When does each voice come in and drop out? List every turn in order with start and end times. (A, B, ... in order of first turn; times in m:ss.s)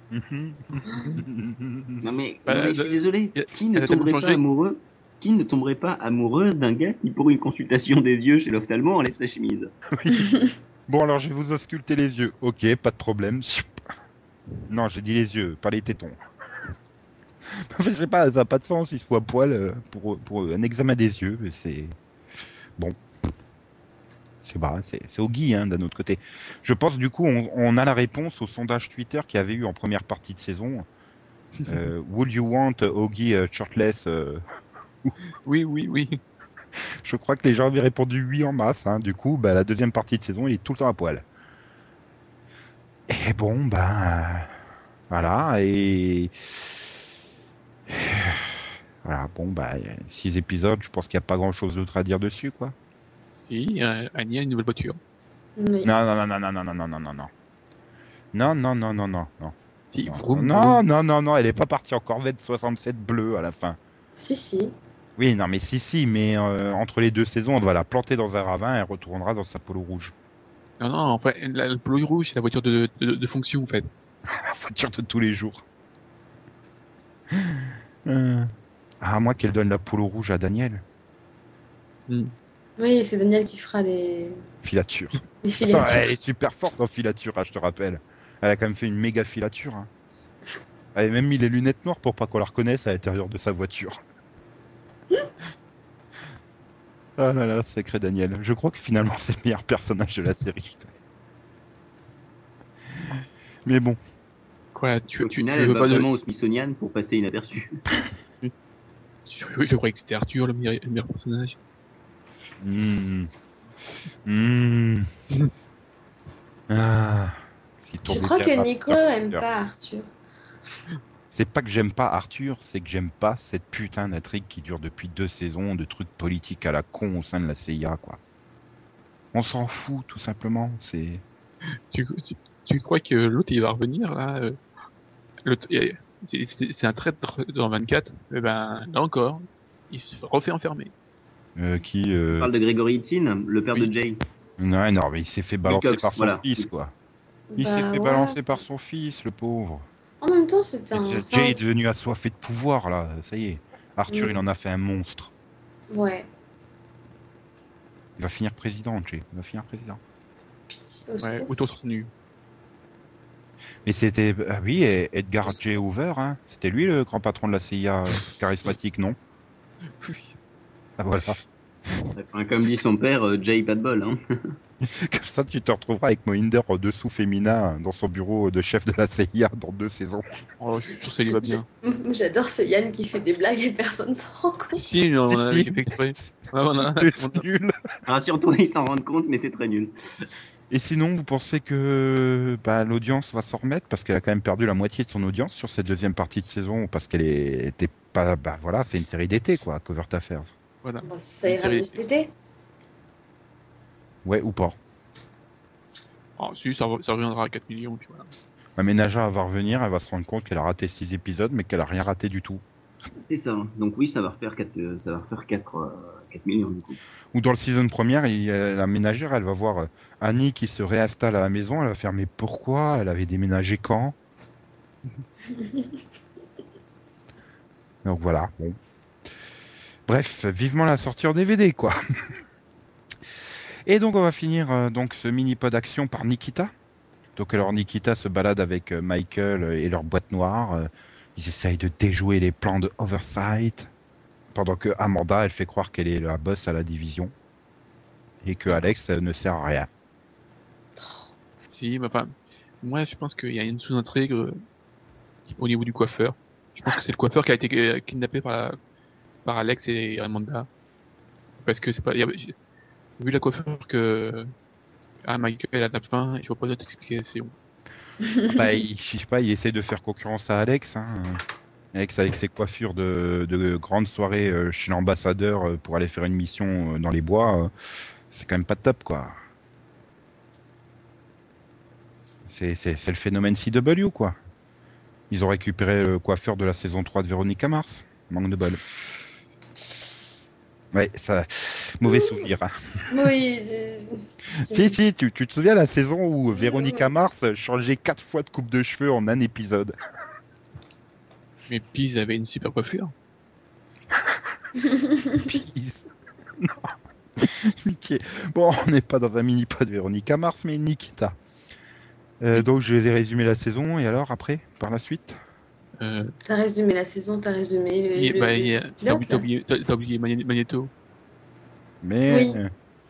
0:00.1-0:02.0 A
0:00.8-0:01.2 B
0:02.0-0:09.7 C
0:02.5-0:04.4 B
0:09.9-0:10.3 A
0:10.1-0:10.5 D
0:10.9-0:13.8 A
0:14.7-0:16.2 A
0:17.5-0:22.0 A
0:24.4-0:30.9 A
0:31.6-0:31.9 B
0:31.7-0:34.4 A
0:35.4-0:36.2 B
0:37.0-0:41.2 A
0:43.1-0:44.5 A
0:45.1-0:46.9 A
0:47.9-0:52.7 A
0:53.4-0:55.0 B
0:55.6-0:55.9 D
0:55.8-0:57.3 A
0:58.3-0:59.5 A
0:59.9-1:00.8 B
1:00.1-1:03.8 A
1:04.2-1:04.7 D
1:05.2-1:10.1 A
1:10.8-1:13.9 B
1:14.3-1:15.6 A
1:17.3-1:20.8 A
1:22.1-1:22.3 B
1:22.8-1:24.4 D
1:24.6-1:29.9 A
1:25.4-1:26.1 D
1:30.9-1:34.0 A
1:37.2-1:40.9 A
1:43.0-1:44.0 A
1:44.7-1:46.1 B
1:45.2-1:47.8 C
1:49.3-1:51.6 B
1:52.6-1:53.3 A
1:54.2-1:55.1 A
1:56.7-1:59.4 A
1:58.1-2:00.1 D
2:01.3-2:08.2 A
2:09.3-2:11.2 A
2:11.9-2:14.6 B
2:15.4-2:20.9 B
2:21.6-2:22.5 A
2:22.3-2:24.2 C
2:24.6-2:26.9 A
2:25.6-2:26.7 C
2:27.5-2:28.4 D
2:27.6-2:29.8 A
2:30.2-2:31.6 D
2:30.9-2:35.3 A
2:34.1-2:34.4 D
2:35.9-2:36.3 D
2:38.2-2:40.0 A
2:40.7-2:41.5 D
2:41.2-2:42.1 B
2:43.8-2:49.2 A
2:50.0-2:50.4 B
2:51.0-2:51.4 A
2:52.1-2:54.2 C
2:54.8-3:00.2 A
3:00.6-3:01.6 B
3:01.3-3:04.8 D
3:04.8-3:07.5 B
3:05.3-3:07.8 A
3:08.1-3:09.9 C
3:10.7-3:20.5 A
3:20.8-3:22.0 B
3:21.0-3:22.3 D
3:24.2-3:24.8 A
3:26.4-3:28.3 B
3:28.8-3:32.6 A
3:33.3-3:37.0 C
3:37.3-3:44.2 A
3:45.6-3:45.8 D
3:48.0-3:48.8 A
3:50.1-3:52.0 A
3:53.8-3:56.7 A
3:57.4-4:03.9 A
4:04.5-4:07.3 A
4:08.4-4:09.9 A
4:11.0-4:11.3 D
4:11.7-4:14.6 B
4:15.5-4:18.8 B
4:19.4-4:20.7 B
4:21.6-4:22.5 B
4:23.2-4:24.5 B
4:25.2-4:27.5 B
4:28.2-4:28.8 D
4:28.5-4:31.4 A
4:31.9-4:37.7 A
4:38.3-4:39.4 A
4:42.5-4:44.4 A
4:45.3-4:48.8 A
4:50.9-4:53.3 A
4:52.1-4:52.4 D
4:53.1-4:55.0 D
4:54.6-4:59.9 A
4:56.5-4:57.1 D
5:01.7-5:03.1 B
5:04.8-5:05.6 D
5:05.4-5:11.4 A
5:12.4-5:15.4 A
5:16.0-5:16.3 B
5:16.4-5:19.4 D
5:18.2-5:20.9 B
5:22.0-5:22.7 A
5:22.3-5:22.6 D